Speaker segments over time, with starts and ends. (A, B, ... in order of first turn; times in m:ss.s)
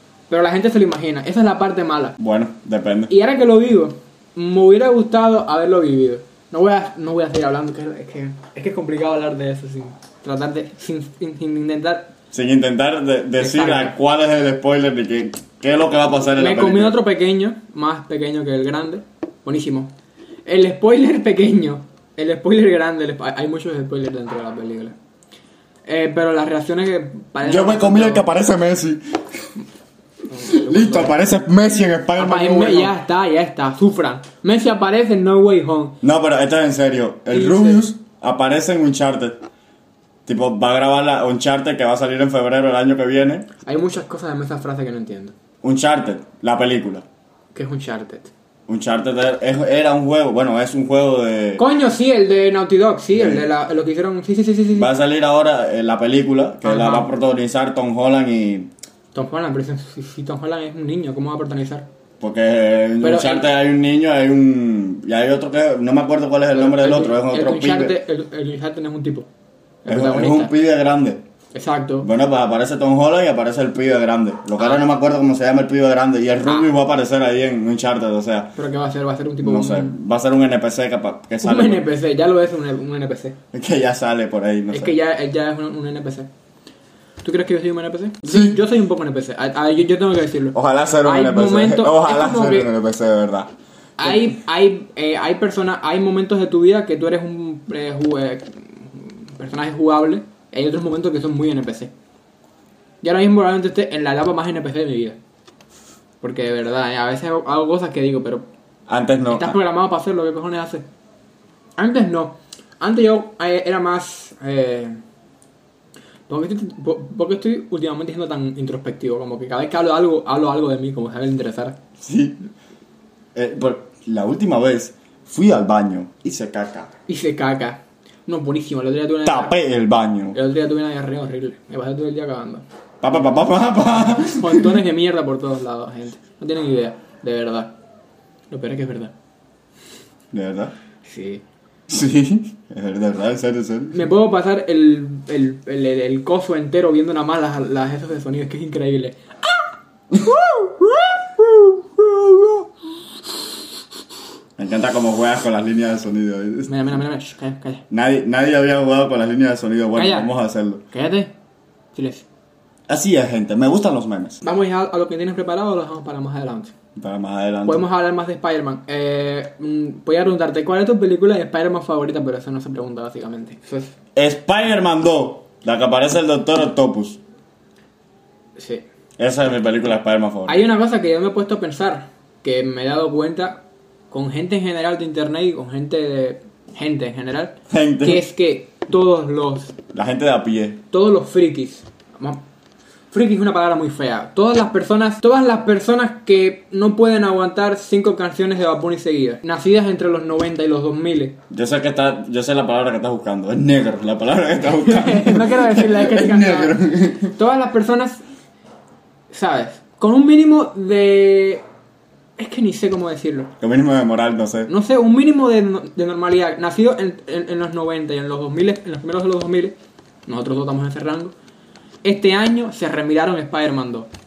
0:00.3-0:02.2 A
0:02.2-0:03.1 B
0:03.1-0:12.1 A
0:12.3-0:17.0 B
0:13.4-0:14.0 A
0:16.4-0:19.9 A
0:20.5-0:25.0 A
0:25.9-0:28.3 A
0:27.4-0:29.2 B
0:30.3-0:31.2 A
0:30.4-0:33.0 B
0:32.2-0:36.0 A
0:36.0-0:39.4 B
0:37.3-0:37.9 A
0:40.3-0:43.5 B
0:43.6-0:45.4 A
0:45.6-0:47.0 B
0:47.5-0:48.3 A
0:48.7-0:51.6 B
0:51.6-0:54.9 A
0:53.1-0:53.5 B
0:54.7-0:58.7 B
0:56.6-0:57.1 A
0:59.1-1:01.9 A
1:02.2-1:08.0 B
1:03.0-1:03.5 A
1:06.5-1:09.3 A
1:09.8-1:10.5 A
1:09.9-1:11.2 B
1:11.5-1:12.1 A
1:12.0-1:18.5 B
1:14.6-1:14.8 A
1:18.6-1:19.9 A
1:19.4-1:21.8 B
1:21.4-1:23.4 A
1:23.5-1:25.0 B
1:24.7-1:26.3 A
1:27.2-1:32.7 A
1:28.2-1:28.6 B
1:30.5-1:33.5 B
1:34.0-1:41.9 A
1:34.0-1:34.3 B
1:43.0-1:45.2 A
1:46.2-1:48.5 A
1:48.9-1:49.6 B
1:49.3-1:50.9 A
1:51.8-1:55.0 A
1:56.3-2:01.8 A
2:02.0-2:02.4 B
2:03.4-2:06.9 B
2:07.1-2:09.6 A
2:09.2-2:10.4 B
2:10.3-2:12.6 A
2:13.0-2:14.8 B
2:14.1-2:17.8 A
2:18.5-2:19.1 A
2:20.3-2:20.7 B
2:21.0-2:21.4 A
2:21.9-2:24.0 B
2:23.9-2:32.6 A
2:34.6-2:36.7 B
2:36.7-2:37.8 A
2:37.9-2:40.8 B
2:40.0-2:40.3 A
2:40.9-2:41.3 A
2:41.9-2:42.3 A
2:42.9-2:44.4 B
2:44.4-2:46.7 A
2:47.0-2:47.8 B
2:47.7-2:53.9 A
2:54.2-2:57.2 B
2:58.6-2:58.8 A
2:59.2-3:00.6 B
3:00.5-3:09.8 A
3:07.7-3:08.2 B
3:09.9-3:10.8 B
3:10.9-3:12.4 A
3:13.1-3:21.4 A
3:21.5-3:27.4 B
3:24.7-3:26.8 A
3:27.3-3:28.2 A
3:29.3-3:31.6 A
3:32.4-3:33.5 A
3:33.6-3:34.7 B
3:34.7-3:41.4 A
3:42.0-3:44.1 A